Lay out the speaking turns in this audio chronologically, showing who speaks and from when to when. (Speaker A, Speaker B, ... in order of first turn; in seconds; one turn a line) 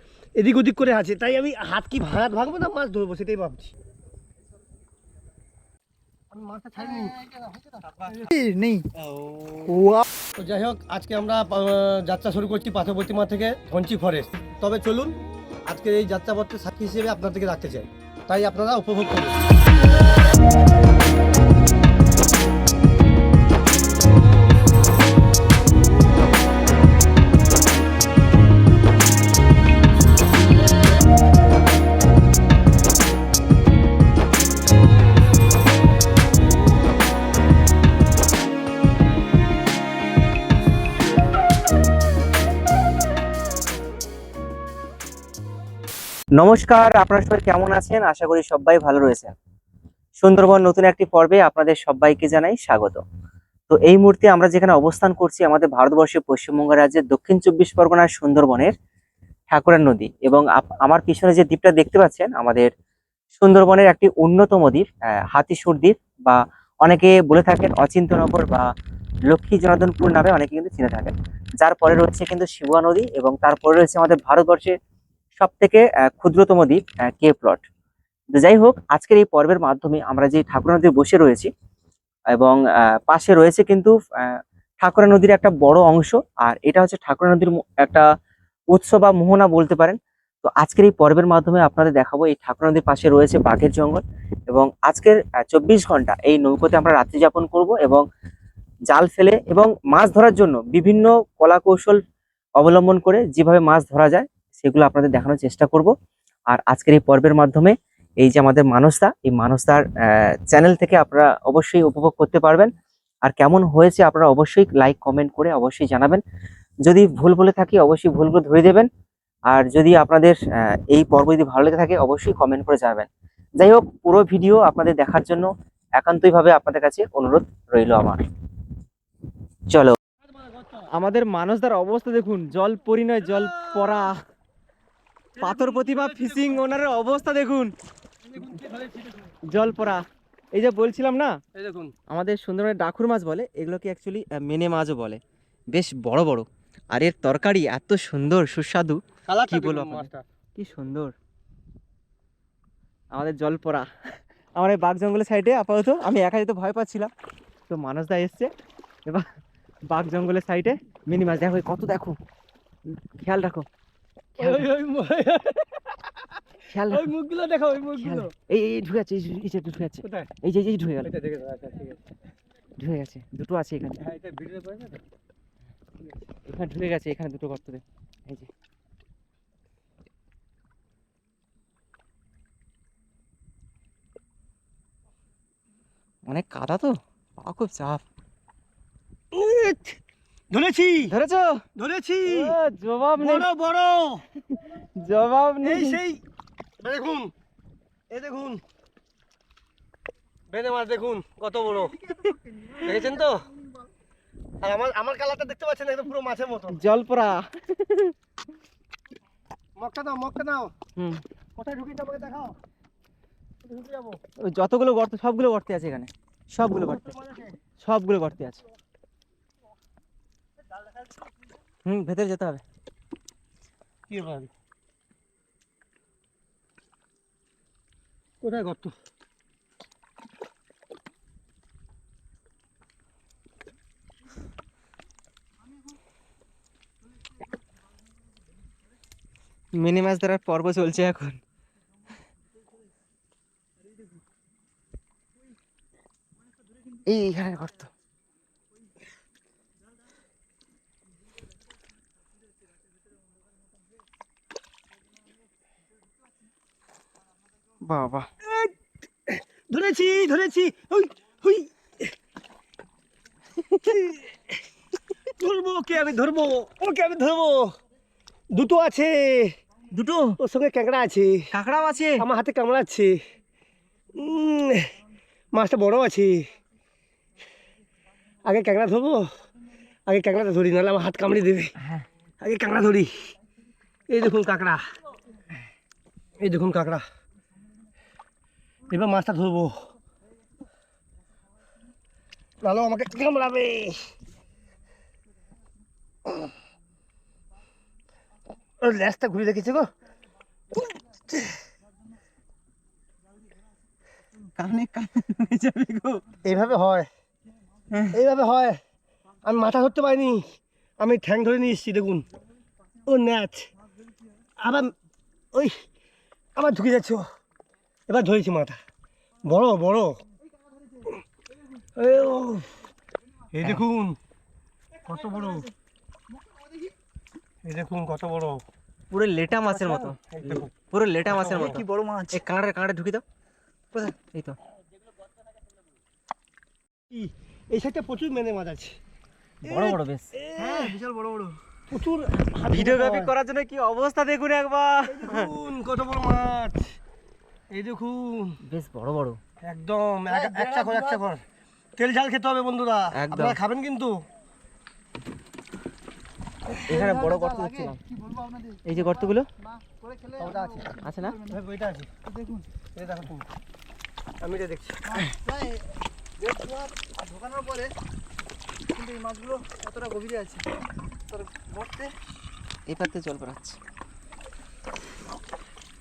Speaker A: 0.4-3.7
Speaker A: 6.3-7.4
Speaker B: 7.9-8.2
Speaker C: 8.4-8.8
Speaker A: 9.0-9.8
Speaker A: 10.4-19.4
Speaker B: 46.4-49.3
Speaker B: 50.2-53.0
Speaker B: 53.7-58.7
Speaker B: 59.5-62.7
Speaker B: 63.4-68.7
Speaker B: 69.3-74.8
Speaker B: 75.4-77.6
Speaker B: 78.3-81.5
Speaker B: 82.3-88.1
Speaker B: 88.7-98.0
Speaker B: 98.9-102.0
Speaker B: 102.6-105.9
Speaker B: 106.5-112.7
Speaker B: 113.2-116.2
Speaker B: 116.9-118.9
Speaker B: 119.5-123.1
Speaker B: 123.6-128.3
Speaker B: 129.7-130.0
Speaker A: 130.3-130.8
Speaker B: 130.9-134.2
Speaker A: 133.3-134.1
Speaker A: 135.4-136.6
Speaker B: 135.4-137.7
Speaker A: 138.2-139.3
Speaker B: 139.5-140.0
Speaker B: 140.5-141.3
Speaker A: 141.6-141.9
Speaker B: 142.1-145.2
Speaker B: 145.7-151.2
Speaker A: 149.3-150.3
Speaker B: 153.2-153.9
Speaker B: 154.6-157.1
Speaker B: 157.7-158.5
Speaker B: 159.9-162.2
Speaker B: 162.9-163.7
Speaker B: 164.4-164.7
Speaker A: 164.4-165.9
Speaker B: 166.7-167.1
Speaker A: 166.9-168.3
Speaker B: 168.0-171.1
Speaker A: 170.0-170.3
Speaker A: 171.0-172.0
Speaker B: 172.8-174.0
Speaker A: 174.0-175.0
Speaker A: 176.0-176.3
Speaker B: 176.5-178.5
Speaker B: 186.3-188.0
Speaker A: 189.3-191.2
Speaker B: 191.1-191.6
Speaker A: 191.8-192.6
Speaker B: 192.3-193.5
Speaker A: 193.2-194.2
Speaker B: 194.6-196.0
Speaker A: 195.6-196.2
Speaker A: 196.8-197.3
Speaker A: 198.1-198.6
Speaker A: 200.5-202.1
Speaker A: 202.8-203.5
Speaker A: 204.6-206.8
Speaker B: 206.7-208.2
Speaker A: 209.8-210.7
Speaker B: 211.0-211.2
Speaker A: 211.6-212.6
Speaker A: 213.6-214.2
Speaker B: 214.5-217.1
Speaker A: 216.8-217.5
Speaker B: 217.8-218.6
Speaker B: 221.8-222.6
Speaker A: 224.1-224.5
Speaker A: 228.4-228.9
Speaker B: 239.7-241.4
Speaker B: 247.1-247.9
Speaker B: 257.8-258.3
Speaker A: 258.4-258.7
Speaker A: 259.3-262.1
Speaker B: 263.6-264.2
Speaker A: 265.4-267.8
Speaker A: 268.5-269.6
Speaker B: 269.9-270.4
Speaker A: 270.4-271.5
Speaker B: 271.5-272.2
Speaker A: 272.2-273.2
Speaker A: 274.1-274.9
Speaker A: 275.5-276.5
Speaker A: 278.4-279.3
Speaker A: 280.1-281.7
Speaker B: 281.8-282.1
Speaker A: 282.4-283.3
Speaker A: 284.1-284.9
Speaker A: 286.4-287.1
Speaker A: 288.9-289.9
Speaker A: 292.6-294.1
Speaker A: 298.8-299.9
Speaker B: 304.6-306.2
Speaker A: 306.4-307.1
Speaker B: 307.9-308.2
Speaker A: 308.1-308.8
Speaker A: 309.4-312.3
Speaker A: 313.1-313.7
Speaker A: 314.6-314.9
Speaker A: 315.5-315.8
Speaker A: 316.6-317.3
Speaker A: 318.1-318.8
Speaker A: 319.4-320.2
Speaker A: 322.0-322.7
Speaker A: 323.5-324.2
Speaker A: 325.0-325.7
Speaker A: 327.6-328.6
Speaker B: 329.1-333.2
Speaker A: 329.7-330.7
Speaker A: 331.3-331.8
Speaker C: 331.8-332.4
Speaker A: 337.1-339.0
Speaker B: 339.6-340.3
Speaker A: 339.7-341.0
Speaker C: 340.7-341.6
Speaker A: 341.9-343.3
Speaker B: 342.6-345.5
Speaker A: 345.1-347.0
Speaker A: 347.7-348.6
Speaker B: 348.7-349.4
Speaker A: 349.6-351.4
Speaker A: 352.0-354.2
Speaker B: 353.1-353.6
Speaker C: 356.7-358.9
Speaker B: 356.7-358.0
Speaker B: 358.9-359.5
Speaker C: 359.8-360.9
Speaker A: 360.4-362.1
Speaker B: 361.0-361.4
Speaker C: 362.3-362.6
Speaker A: 362.9-363.5
Speaker A: 364.4-365.0
Speaker C: 365.4-365.8
Speaker C: 366.4-367.9
Speaker C: 368.9-370.7
Speaker C: 371.3-372.1
Speaker B: 372.9-373.8